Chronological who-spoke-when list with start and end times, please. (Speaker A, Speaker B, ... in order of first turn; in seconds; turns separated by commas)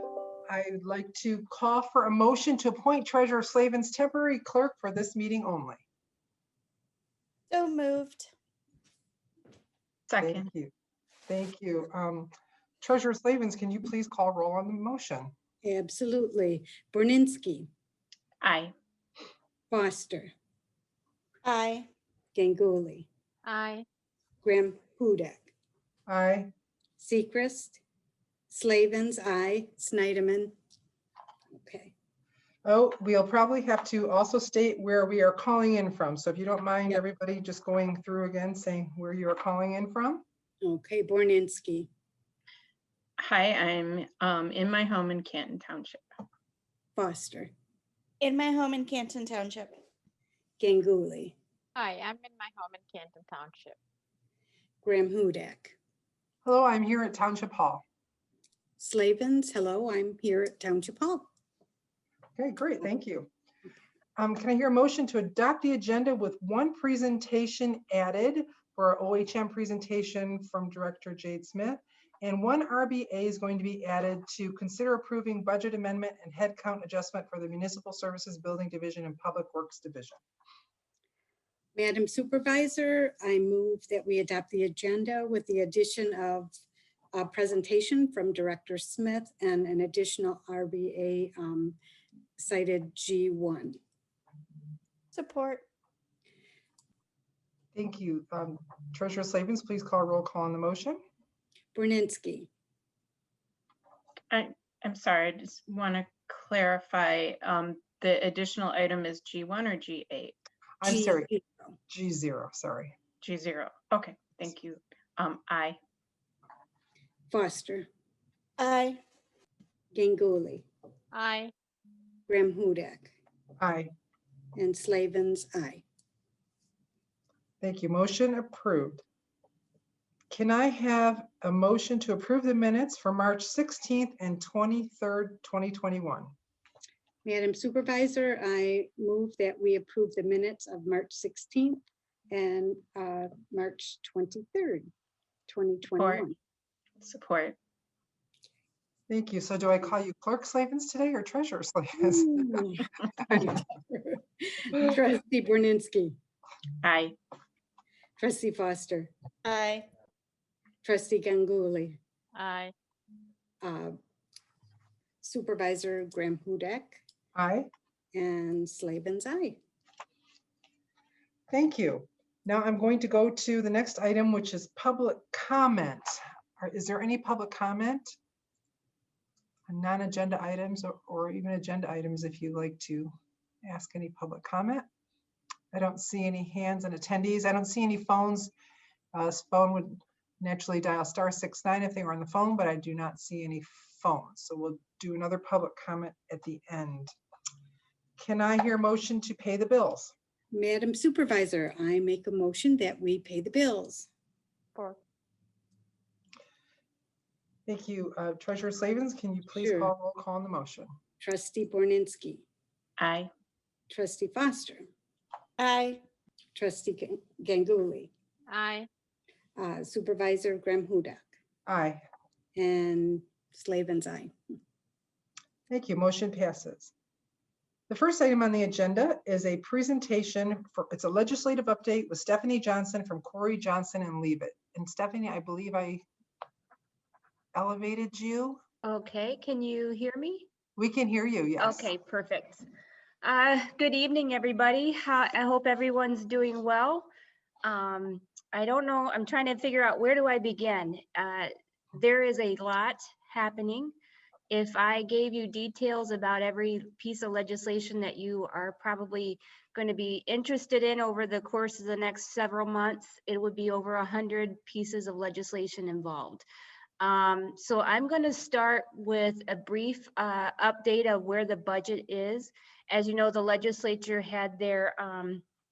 Speaker A: 0.5-5.8, Speaker B: 7.5-8.3, Speaker C: 10.1-10.5, Speaker A: 10.2-10.7, Speaker A: 11.3-12.3, Speaker A: 12.8-15.3, Speaker D: 15.6-17.7, Speaker C: 18.4-18.7, Speaker D: 19.7-20.3, Speaker B: 21.4-21.9, Speaker D: 22.3-23.1, Speaker E: 23.5-23.9, Speaker D: 24.4-25.5, Speaker A: 26.1-26.5, Speaker D: 27.0-27.8, Speaker D: 28.5-30.6, Speaker D: 31.5-31.9, Speaker A: 32.6-40.2, Speaker D: 40.6-41.9, Speaker C: 43.2-46.0, Speaker D: 47.0-47.5, Speaker B: 48.2-49.8, Speaker D: 50.6-51.4, Speaker E: 51.8-53.8, Speaker D: 54.8-55.8, Speaker A: 56.5-57.8, Speaker D: 58.8-61.3, Speaker A: 62.4-63.3, Speaker A: 64.2-80.2, Speaker D: 81.8-86.5, Speaker D: 87.1-91.8, Speaker D: 92.4-93.8, Speaker B: 95.1-95.7, Speaker A: 97.7-101.0, Speaker D: 101.7-102.5, Speaker C: 104.3-110.4, Speaker A: 110.8-111.3, Speaker D: 110.8-111.7, Speaker A: 111.9-113.0, Speaker C: 113.2-115.8, Speaker D: 117.3-117.9, Speaker B: 118.6-119.0, Speaker D: 119.9-120.7, Speaker E: 121.1-121.5, Speaker D: 122.3-123.2, Speaker A: 123.6-123.9, Speaker D: 124.6-125.8, Speaker A: 127.6-129.0, Speaker A: 130.3-136.3, Speaker D: 137.2-144.9, Speaker D: 145.5-146.4, Speaker C: 146.0-146.2, Speaker C: 147.0-147.6, Speaker A: 149.1-153.5, Speaker D: 152.0-156.2, Speaker C: 156.8-157.2, Speaker D: 158.2-159.1, Speaker B: 159.4-159.9, Speaker D: 160.8-162.0, Speaker E: 162.3-162.7, Speaker D: 163.6-164.0, Speaker D: 165.2-167.0, Speaker A: 167.3-167.7, Speaker D: 168.1-169.6, Speaker A: 171.5-178.2, Speaker A: 179.7-184.9, Speaker A: 185.7-188.5, Speaker A: 189.1-197.1, Speaker A: 198.2-200.1, Speaker D: 200.5-204.1, Speaker A: 207.7-210.9, Speaker D: 209.6-209.9, Speaker D: 211.2-212.4, Speaker C: 213.0-213.3, Speaker D: 213.9-214.9, Speaker B: 215.6-216.0, Speaker D: 216.5-218.1, Speaker E: 218.5-218.9, Speaker D: 219.6-221.3, Speaker A: 221.7-222.0, Speaker D: 222.6-224.3, Speaker A: 225.7-226.9, Speaker A: 227.9-236.0, Speaker A: 237.6-238.6, Speaker F: 238.8-240.5, Speaker A: 240.8-241.9, Speaker F: 241.6-242.6, Speaker F: 243.2-247.1, Speaker F: 247.6-253.9, Speaker F: 254.5-266.4, Speaker F: 267.0-275.4